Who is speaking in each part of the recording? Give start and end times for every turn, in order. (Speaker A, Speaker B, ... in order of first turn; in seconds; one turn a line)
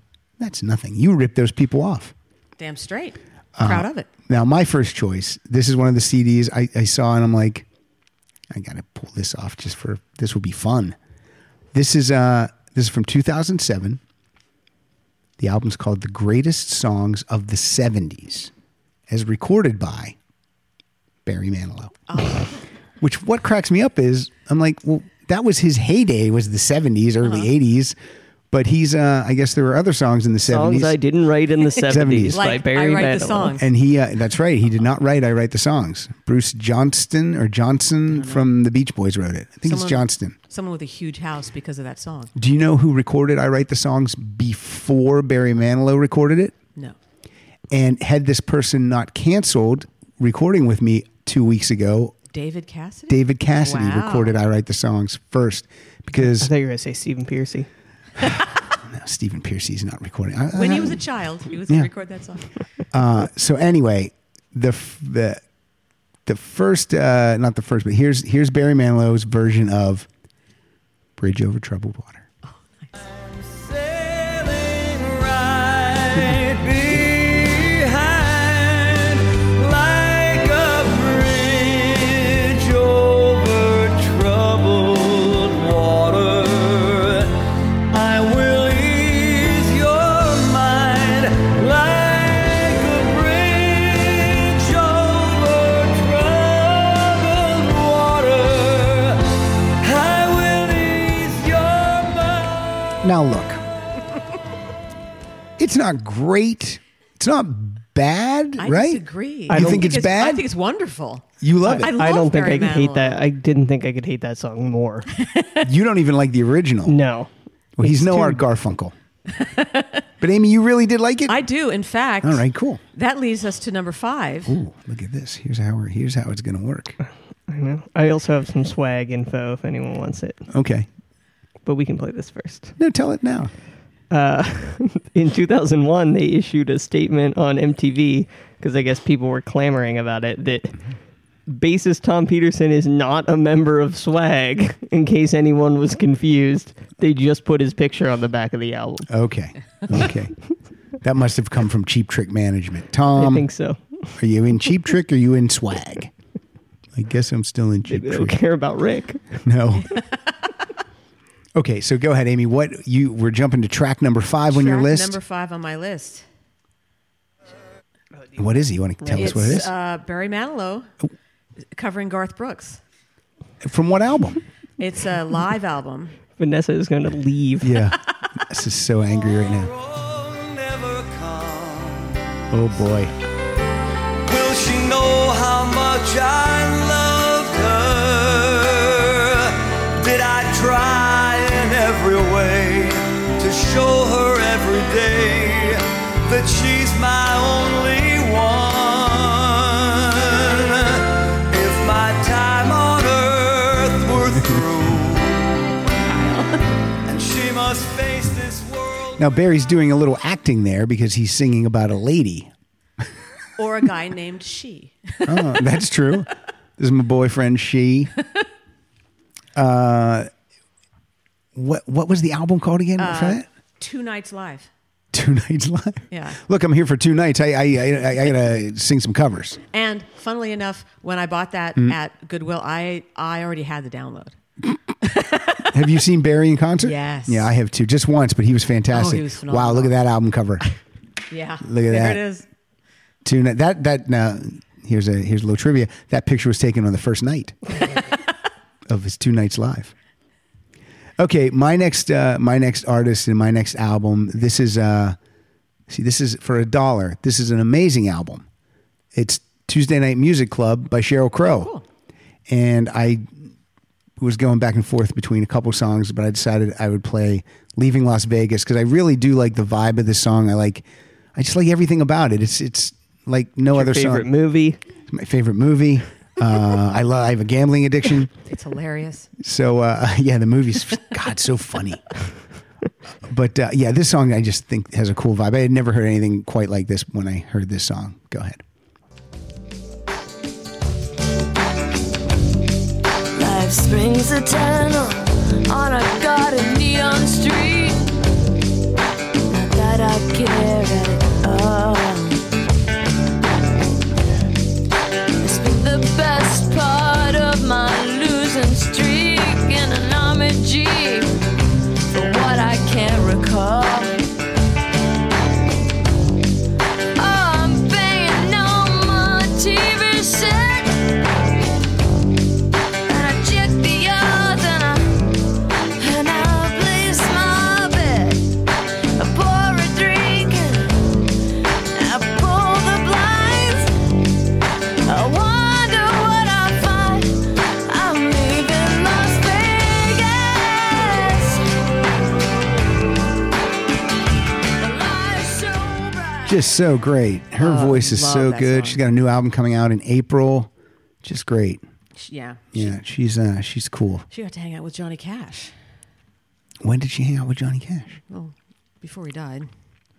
Speaker A: 0.4-2.1
Speaker B: 2.6-4.1
Speaker A: 3.6-7.7
Speaker A: 8.5-10.9
Speaker A: 11.7-14.0
Speaker A: 15.4-18.5
Speaker A: 19.1-20.1
Speaker A: 21.3-22.4
Speaker B: 22.1-22.6
Speaker A: 23.0-27.9
Speaker B: 27.2-27.5
Speaker A: 28.5-30.9
Speaker C: 30.5-33.6
Speaker A: 31.9-32.5
Speaker B: 32.3-33.6
Speaker A: 33.6-40.4
Speaker B: 38.1-38.5
Speaker B: 39.6-42.3
Speaker A: 42.4-46.5
Speaker A: 47.7-52.1
Speaker B: 52.3-54.4
Speaker A: 53.1-56.5
Speaker C: 56.2-57.7
Speaker A: 58.8-61.0
Speaker B: 60.5-62.5
Speaker A: 62.9-65.4
Speaker A: 66.3-70.1
Speaker A: 71.2-72.3
Speaker B: 72.4-72.9
Speaker D: 73.0-87.3
Speaker D: 87.9-99.2
Speaker D: 99.8-102.9
Speaker A: 103.0-103.6
Speaker A: 105.6-110.4
Speaker B: 108.6-113.2
Speaker C: 109.5-109.9
Speaker A: 111.4-111.9
Speaker C: 111.7-115.1
Speaker B: 115.2-115.7
Speaker A: 115.6-117.0
Speaker C: 116.9-117.3
Speaker A: 117.8-118.9
Speaker C: 117.8-118.4
Speaker B: 119.3-120.0
Speaker A: 120.2-121.4
Speaker B: 121.3-124.5
Speaker A: 122.2-122.8
Speaker A: 124.5-127.0
Speaker C: 127.5-130.4
Speaker A: 130.5-130.9
Speaker C: 131.7-132.8
Speaker A: 132.8-133.5
Speaker C: 134.1-140.8
Speaker C: 141.5-149.1
Speaker A: 149.1-150.3
Speaker A: 151.0-153.5
Speaker C: 153.1-154.1
Speaker A: 154.2-156.1
Speaker A: 156.9-158.4
Speaker C: 157.9-159.4
Speaker A: 159.4-160.0
Speaker A: 161.6-165.2
Speaker B: 164.5-166.2
Speaker A: 168.4-169.7
Speaker C: 169.0-169.6
Speaker B: 169.1-170.9
Speaker B: 171.7-172.8
Speaker A: 173.6-174.4
Speaker B: 174.8-176.1
Speaker C: 176.4-177.8
Speaker A: 177.6-179.7
Speaker D: 179.3-182.4
Speaker A: 182.5-183.1
Speaker D: 184.3-205.8
Speaker D: 207.1-209.3
Speaker A: 209.2-212.5
Speaker B: 213.6-215.6
Speaker A: 215.3-218.1
Speaker A: 219.6-220.3
Speaker A: 221.6-223.4
Speaker B: 223.0-224.7
Speaker A: 225.1-229.6
Speaker B: 226.1-226.4
Speaker B: 229.7-234.4
Speaker B: 235.0-235.7
Speaker A: 235.7-240.6
Speaker B: 236.8-237.5
Speaker B: 238.9-240.0
Speaker B: 241.3-242.5
Speaker A: 241.6-242.2
Speaker A: 243.2-247.6
Speaker A: 248.9-249.9
Speaker A: 251.2-255.2
Speaker A: 255.9-258.4
Speaker A: 259.1-261.7
Speaker B: 261.5-261.8
Speaker A: 262.5-263.4
Speaker A: 264.2-274.3
Speaker C: 273.7-274.8
Speaker A: 275.1-278.3
Speaker B: 278.4-279.3
Speaker A: 279.4-282.2
Speaker A: 283.3-288.6
Speaker E: 293.4-298.1
Speaker E: 299.5-302.4
Speaker E: 305.4-311.3
Speaker E: 312.1-314.2
Speaker E: 317.1-321.1
Speaker E: 323.1-325.3
Speaker E: 326.0-328.4
Speaker E: 329.2-331.0
Speaker E: 331.9-333.9
Speaker E: 335.1-341.6
Speaker E: 344.8-346.6
Speaker A: 346.4-350.7
Speaker B: 347.6-349.0
Speaker A: 351.2-351.8
Speaker B: 352.1-352.9
Speaker A: 352.7-354.3
Speaker B: 354.3-355.7
Speaker A: 356.8-358.2
Speaker B: 358.3-359.7